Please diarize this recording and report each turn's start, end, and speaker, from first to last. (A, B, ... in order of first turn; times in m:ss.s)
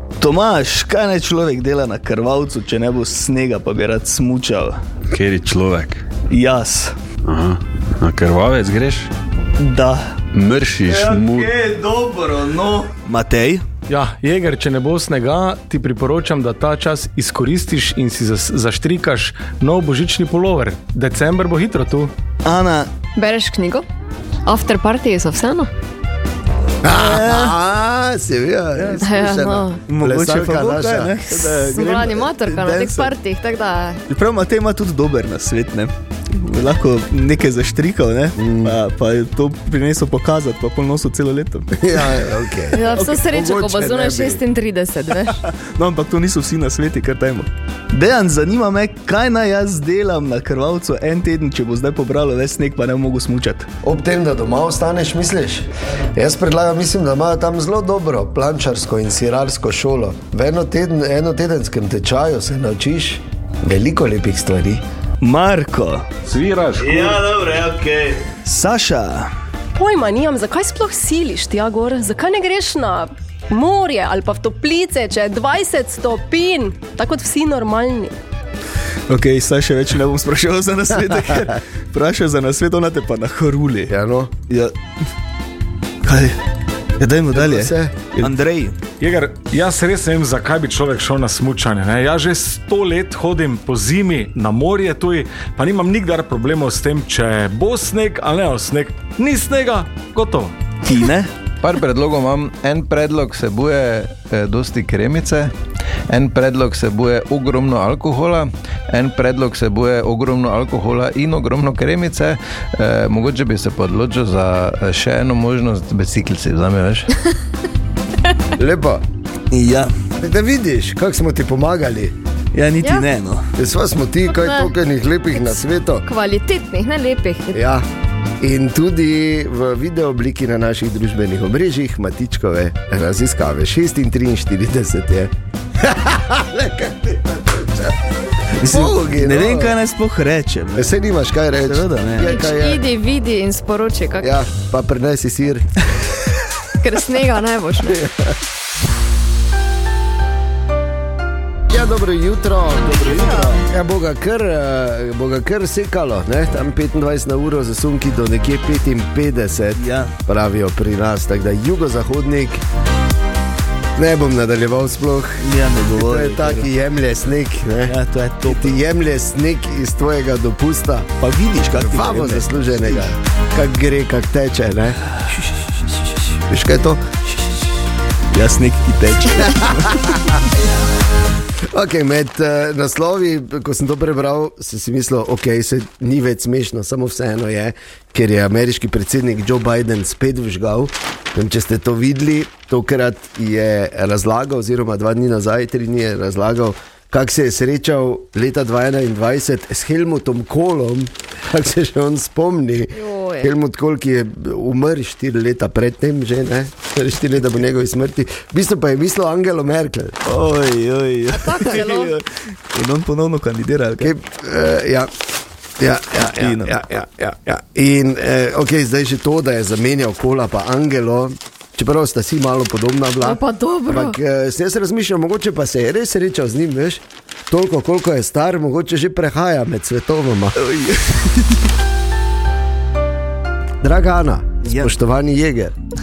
0:00.2-0:04.8 A
0:05.1-0:06.0 B
0:06.3-0:06.9 A
0:07.2-0:09.1 B
0:09.6-0:10.2 A
0:10.3-0:11.5 B
0:10.9-0:13.6 A
0:13.9-0:22.1 C
0:22.4-0:22.9 A
0:23.2-0:23.8 D
0:24.4-0:25.7 D
0:26.8-0:31.2 E
0:26.9-0:27.6 A
0:28.8-0:29.0 A
0:29.0-0:29.8 D
0:29.9-0:33.1 A
0:31.3-0:34.0 D
0:34.1-0:42.1 A
0:38.4-0:38.8 E
0:41.8-0:44.4 E
0:42.7-0:45.4 D
0:45.4-0:53.7 A
0:53.8-1:04.8 E
1:05.2-1:06.1 A
1:06.2-1:07.2 C
1:06.8-1:09.3 A
1:09.7-1:18.2 F
1:19.1-1:23.9 A
1:23.9-1:24.3 E
1:24.5-1:24.7 A
1:26.0-1:26.4 A
1:27.0-1:28.8 A
1:27.3-1:28.3 E
1:29.0-1:40.6 C
1:40.8-1:41.3 A
1:41.6-1:45.5 G
1:46.1-1:57.1 G
1:58.6-1:59.0 E
1:59.5-1:59.9 A
2:00.2-2:02.1 E
2:02.5-2:03.5 A
2:03.6-2:06.0 E
2:04.3-2:04.7 D
2:05.4-2:07.6 D
2:07.5-2:07.8 E
2:08.4-2:18.0 E
2:18.5-2:19.8 E
2:18.6-2:20.9 A
2:20.8-2:22.8 E
2:21.6-2:22.3 A
2:22.2-2:24.3 D
2:24.2-2:25.7 E
2:26.8-2:28.0 D
2:27.8-2:28.4 E
2:31.7-2:42.6 E
2:32.8-2:33.7 A
2:33.0-2:33.5 D
2:39.8-2:40.1 A
2:44.0-2:51.1 E
2:45.4-2:46.7 A
2:47.9-2:48.8 A
2:51.2-2:53.1 A
2:51.7-2:55.0 E
2:56.4-2:57.2 E
2:58.3-3:00.4 A
2:59.4-3:00.3 E
3:01.7-3:30.2 E
3:22.9-3:23.5 D
3:30.2-3:34.1 A
3:31.3-3:32.1 D
3:34.0-3:35.1 E
3:35.8-3:50.6 E
3:36.4-3:36.7 A
3:43.2-3:44.2 D
3:50.6-3:51.7 A
3:53.8-3:55.8 E
3:54.6-3:54.9 A